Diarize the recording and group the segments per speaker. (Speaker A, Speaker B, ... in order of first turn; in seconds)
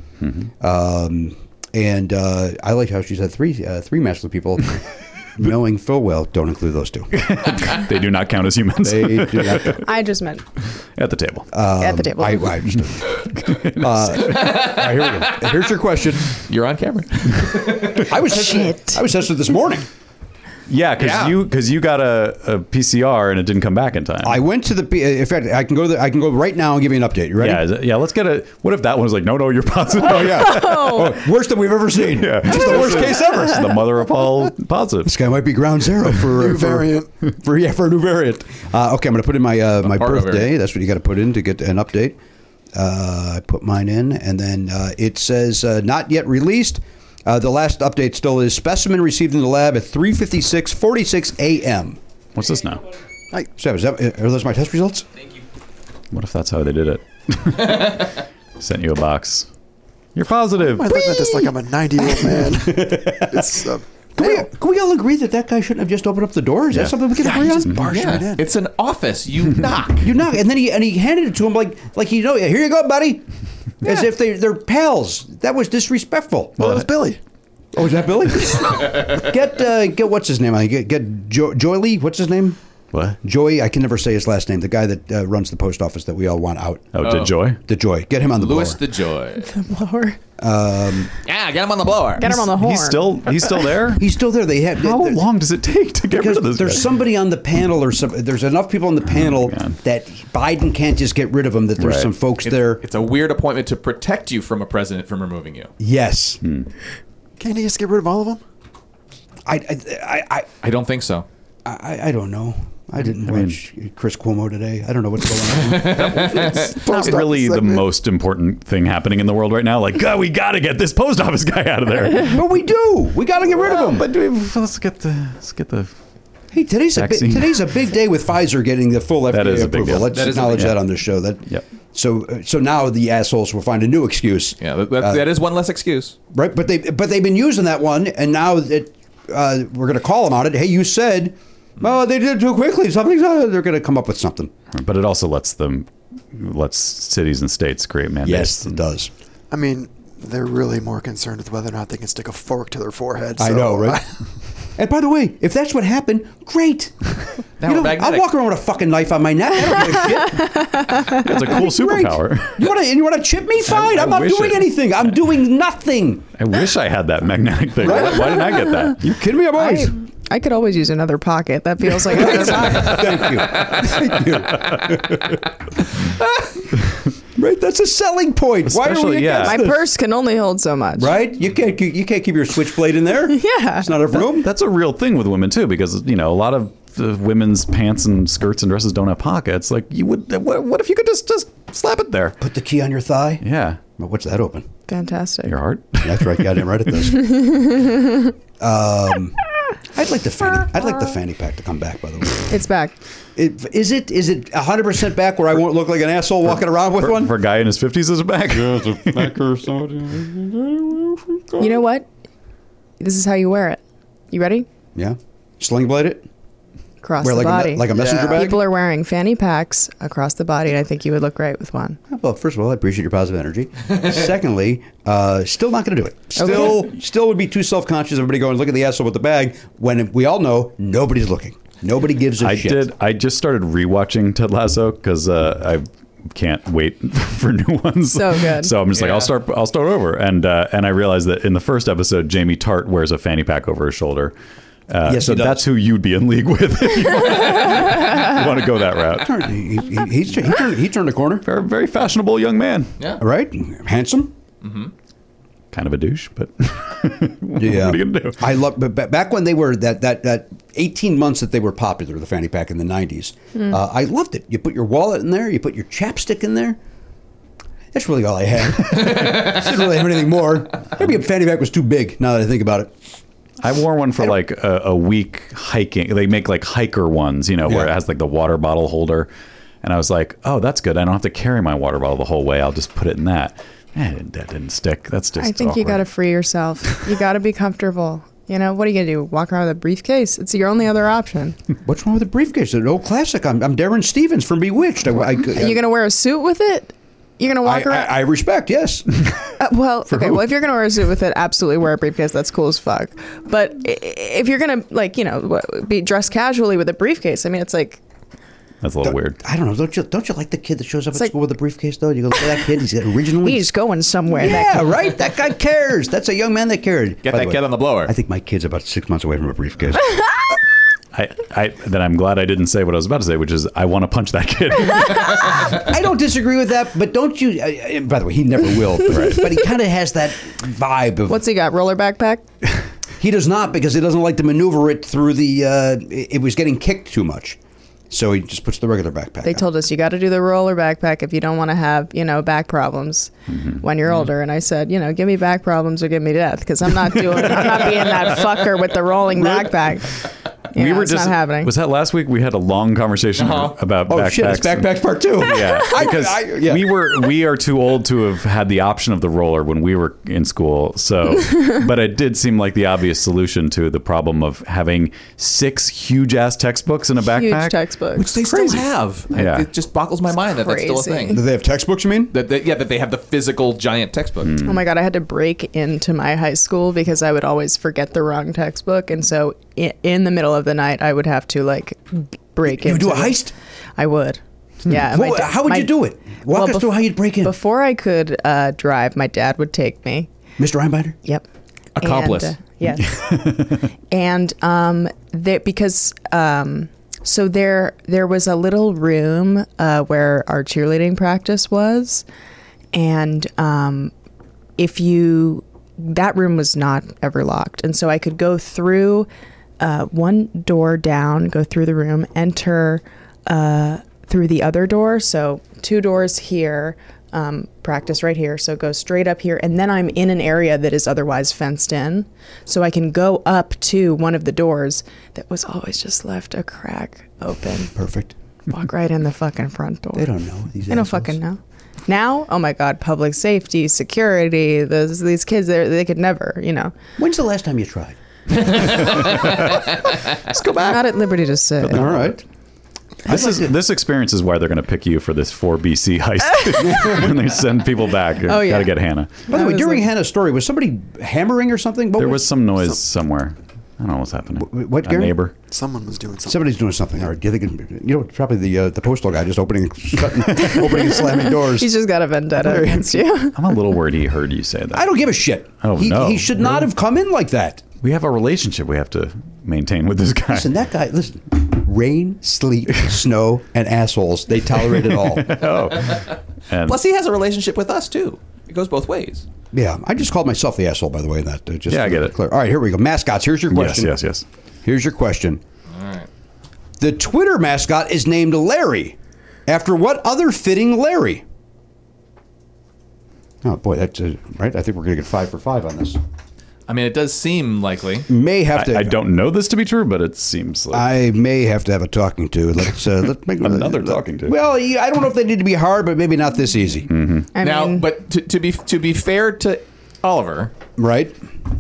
Speaker A: 0.2-0.5, 7.1-9.8, 10.9-11.5, 13.1-14.4, 20.7-24.4, 27.4-31.1, 32.1-35.1, 52.3-52.9, 56.1-59.5, 60.1-61.0, 82.9-83.2, 86.9-87.6, 92.2-94.1, 94.8-96.9, 99.1-99.7, 101.8-102.1, 106.4-106.7, 113.0-113.6, 116.3-122.4, 123.5-125.9, 126.9-127.6, 129.3-130.8, 144.7-148.8, 161.1-162.6, 163.6-164.7, 166.4-169.0, 178.7-179.7, 184.1-192.4, 193.4-193.8, 195.4-196.6, 206.8-210.9, 232.4-244.3, 244.9-249.4, 251.4-252.9, 255.7-258.4, 273.6-279.3, 279.8-286.0, 308.8-309.4, 321.1-325.6, 329.1-329.5, 343.5-343.8, 350.7-367.8, 369.3-369.7, 374.4-374.8, 438.8-439.8, 440.5-441.1, 441.9-442.3, 443.2-449.4, 452.2-455.5, 463.5-465.1, 465.8-466.9, 468.0-470.7, 475.0-477.0, 481.9-482.4, 483.7-484.4, 498.7-501.1, 503.6-504.5, 507.1-507.5
Speaker B: 0.6-7.2, 8.8-9.8, 11.5-16.3, 18.0-19.9, 24.2-27.6, 30.0-33.8, 35.0-42.2, 42.7-52.0, 53.5-55.0, 62.2-63.6, 64.2-67.8, 70.0-73.2, 73.8-76.8, 77.7-82.6, 83.2-86.9, 87.7-88.8, 90.4-91.1, 93.9-95.2, 96.1-102.8, 105.8-106.4, 109.5-110.5, 111.6-116.7, 122.2-124.1, 126.5-135.2, 136.3-144.5, 148.2-149.1, 153.4-154.0, 154.8-160.6, 161.2-166.3, 167.8-169.9, 172.0-175.4, 177.3-179.9, 180.9-184.5, 192.4-193.4, 193.9-194.7, 196.0-197.6, 198.6-199.4, 199.9-202.6, 203.3-207.3, 208.5-211.7, 214.9-216.3, 217.2-218.7, 222.1-232.9, 245.1-245.7, 249.1-251.4, 253.2-254.3, 257.6-266.8, 267.9-272.9, 277.6-277.9, 291.8-295.8, 297.6-299.1, 300.1-300.4, 309.0-313.7, 314.3-320.1, 325.6-331.4, 333.2-337.6, 338.1-339.6, 347.4-348.0, 349.4-349.7, 354.1-357.0, 371.3-372.3, 382.7-383.5, 384.9-387.6, 390.6-391.1, 427.9-428.3, 430.1-431.4, 437.2-438.9, 441.9-442.4, 443.2-443.8, 446.8-447.4, 449.5-452.5, 454.6-455.4, 456.4-461.9, 462.6-463.2, 464.9-467.8, 470.5-475.7, 479.7-484.1, 484.8-485.6, 487.0-489.1, 489.7-491.4, 493.6-496.2, 498.3-499.2, 500.9-507.1, 511.0-511.4
Speaker C: 9.8-10.4, 11.8-12.6, 18.2-19.0, 30.3-31.1, 89.4-90.2, 92.2-93.7, 160.2-160.5, 168.4-168.8, 169.5-173.0, 179.4-181.2, 183.3-184.0, 194.9-195.6, 197.3-198.3, 202.5-202.9, 211.6-212.1, 213.0-214.7, 217.0-222.0, 226.3-226.8, 238.1-238.8, 285.4-291.6, 295.4-298.2, 299.6-308.0, 313.4-314.9, 331.3-332.4, 339.4-350.1, 350.7-351.7, 367.2-368.8, 370.5-371.4, 374.6-390.3, 392.0-402.2, 402.9-404.1, 404.8-409.3, 409.8-427.9, 428.7-430.3, 430.9-436.9, 440.6-442.0, 448.4-450.1, 460.6-463.7, 507.5-508.1
Speaker D: 14.3-15.4, 16.4-18.1, 21.0-21.3, 39.8-40.5, 67.8-70.0, 87.0-87.3, 88.3-89.5, 91.2-92.3, 102.4-105.7, 110.6-111.2, 115.6-116.8, 130.0-130.7, 134.6-136.2, 157.6-158.3, 173.3-173.8, 238.9-239.3, 254.6-254.9, 317.2-318.1, 353.4-353.8, 368.1-371.4, 372.3-374.5, 391.9-392.6, 438.6-439.6, 476.9-479.4, 485.9-486.3, 496.9-498.3, 507.6-510.7
Speaker E: 36.3-37.1, 60.6-64.2, 67.2-68.5, 76.6-77.2, 107.4-108.4, 116.6-117.8, 149.5-154.1, 217.9-218.4, 455.7-456.6